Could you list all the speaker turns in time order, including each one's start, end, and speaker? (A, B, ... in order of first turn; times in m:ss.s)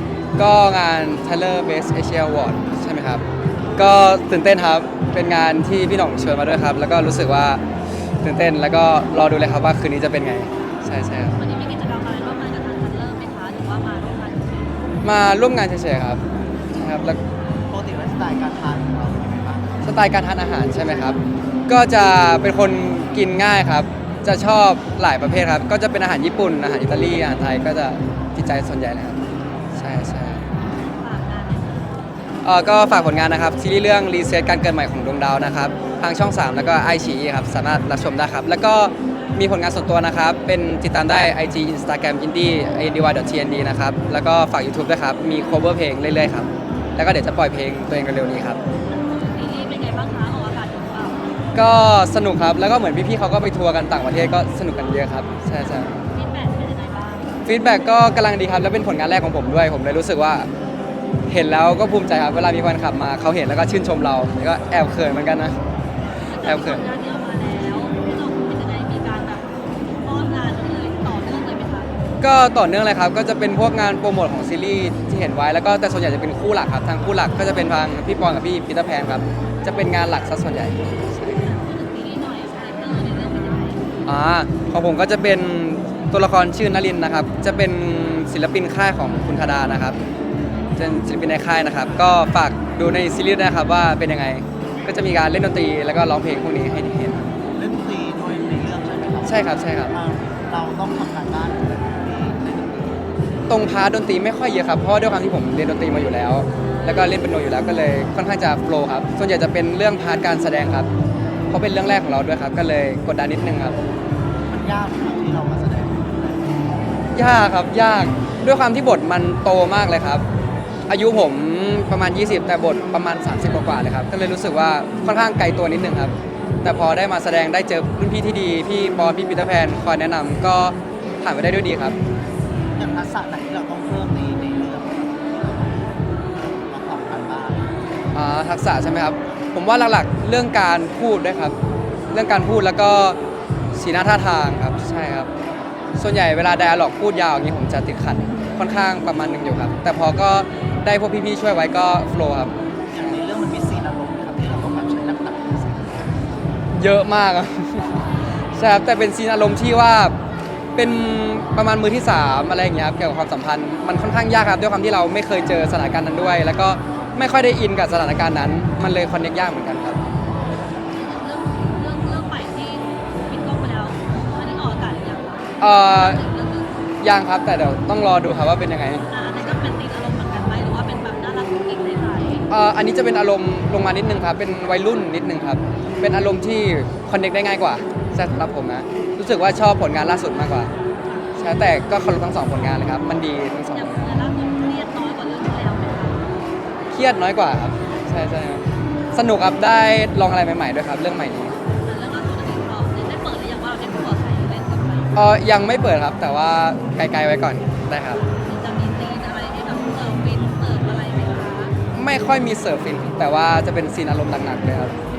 0:00.4-0:03.2 A
0:03.8-0:07.6 A
0:08.2-0:11.4 A
0:11.4-0:14.7 B
0:15.0-0:17.2 A
0:17.7-0:19.8 C
0:19.8-0:21.2 A
0:21.7-0:29.2 A
0:29.8-0:30.5 A
0:30.4-0:32.0 B
0:32.4-0:48.6 A
0:48.9-0:51.2 B
0:51.6-0:55.9 A
0:56.1-0:57.4 B
0:57.5-1:00.5 A
1:01.3-1:05.6 A
1:06.3-1:09.5 B
1:06.4-1:06.8 A
1:10.0-1:11.9 B
1:12.2-1:21.4 A
1:21.2-1:23.8 B
1:24.1-1:30.0 A
1:30.8-1:37.3 A
1:37.6-1:43.0 C
1:39.2-1:39.9 A
1:43.5-1:50.9 A
1:46.7-1:47.1 B
1:51.5-1:53.8 A
1:54.5-1:57.0 C
1:57.1-2:00.2 A
2:00.9-2:12.0 A
2:12.8-2:17.8 C
2:18.1-2:21.6 A
2:22.1-2:23.2 A
2:23.7-2:25.3 A
2:26.0-2:32.5 A
2:32.9-2:36.3 C
2:36.8-2:37.9 A
2:38.6-2:40.2 A
2:40.8-2:50.0 A
2:51.0-2:56.8 B
2:55.6-2:56.2 A
2:57.0-2:59.0 A
2:59.1-3:02.5 B
3:02.5-3:10.7 A
3:11.0-3:11.3 B
3:11.4-3:14.2 A
3:13.7-3:16.2 B
3:16.9-3:21.6 A
3:21.8-3:25.2 B
3:25.2-3:28.2 A
3:28.3-3:31.8 B
3:31.9-3:35.0 A